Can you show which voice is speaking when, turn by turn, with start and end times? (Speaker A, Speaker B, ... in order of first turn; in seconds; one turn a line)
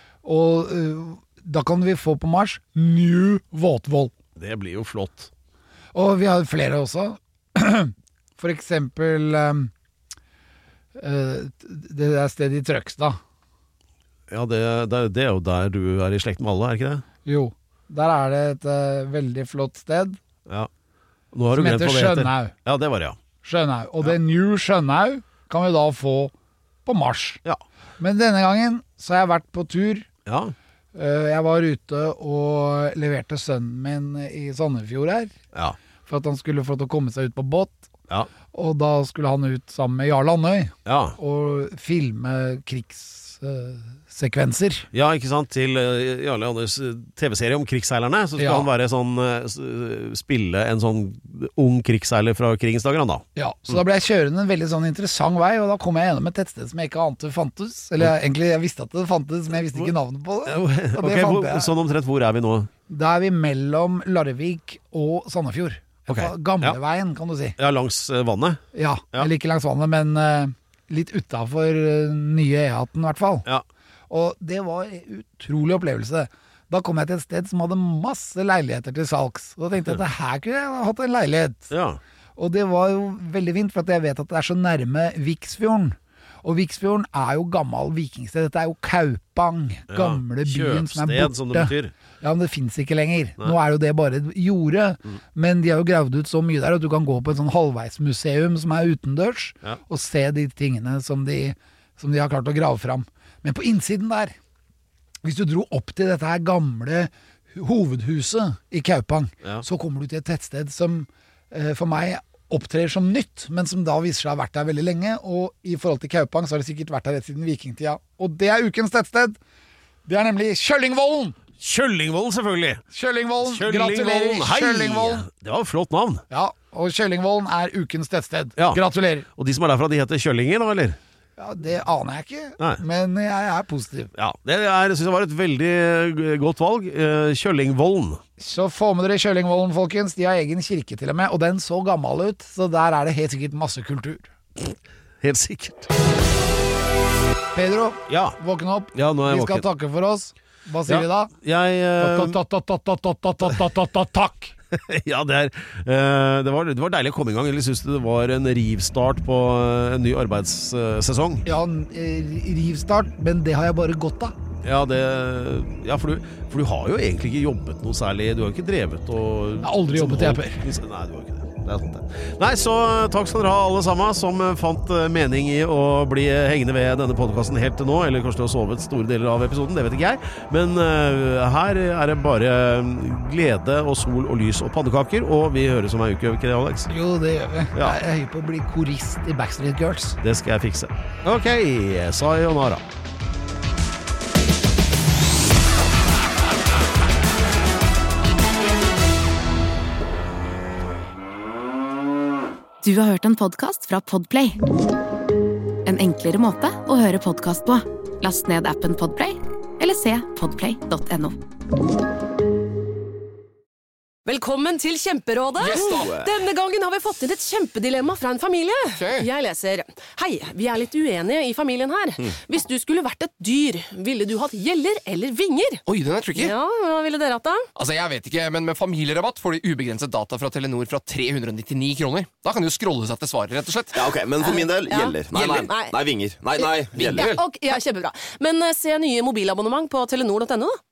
Speaker A: 0.2-4.1
Speaker B: 4.4-5.3
Speaker A: 5.9-9.7
Speaker A: 11.0-13.2
Speaker B: 14.3-17.0
Speaker A: 17.2-20.2
Speaker B: 21.3-23.2
Speaker A: 21.5-22.5
Speaker A: 23.4-26.3
Speaker A: 26.9-27.4
Speaker A: 28.0-30.1
Speaker B: 30.3-30.5
Speaker A: 30.9-35.3
Speaker A: 36.1-37.9
Speaker A: 38.5-44.9
Speaker B: 40.9-41.2
Speaker B: 44.9-53.8
Speaker A: 48.4-48.7
Speaker A: 53.4-61.7
Speaker B: 60.5-62.7
Speaker A: 62.9-67.6
Speaker B: 66.1-66.8
Speaker B: 67.6-68.6
Speaker A: 68.7-73.5
Speaker A: 74.1-81.7
Speaker B: 81.7-82.0
Speaker A: 82.4-104.3
Speaker B: 89.9-91.9
Speaker A: 105.2-119.4
Speaker A: 120.1-121.4
Speaker B: 121.6-122.8
Speaker A: 122.9-125.3
Speaker B: 123.4-126.2
Speaker A: 126.3-129.3
Speaker B: 129.4-131.0
Speaker A: 131.4-134.1
Speaker B: 134.2-138.2
Speaker A: 138.4-144.3
Speaker B: 145.2-146.0
Speaker A: 147.5-151.3
Speaker B: 148.1-148.4
Speaker B: 148.9-149.7
Speaker B: 150.9-152.4
Speaker A: 152.0-154.6
Speaker B: 154.7-161.4
Speaker A: 161.4-164.3
Speaker B: 164.6-186.9
Speaker A: 169.6-170.7
Speaker A: 186.9-190.2
Speaker B: 190.2-192.8
Speaker C: 202.8-204.6
Speaker C: 205.9-211.3
Speaker D: 214.3-225.8
Speaker E: 215.6-216.1
Speaker F: 215.7-216.3
Speaker E: 218.9-219.3
Speaker E: 225.9-226.5
Speaker D: 226.3-227.7
Speaker E: 227.8-234.1
Speaker F: 233.9-237.4
Speaker D: 234.4-235.9
Speaker D: 236.6-240.8
Speaker E: 237.0-237.3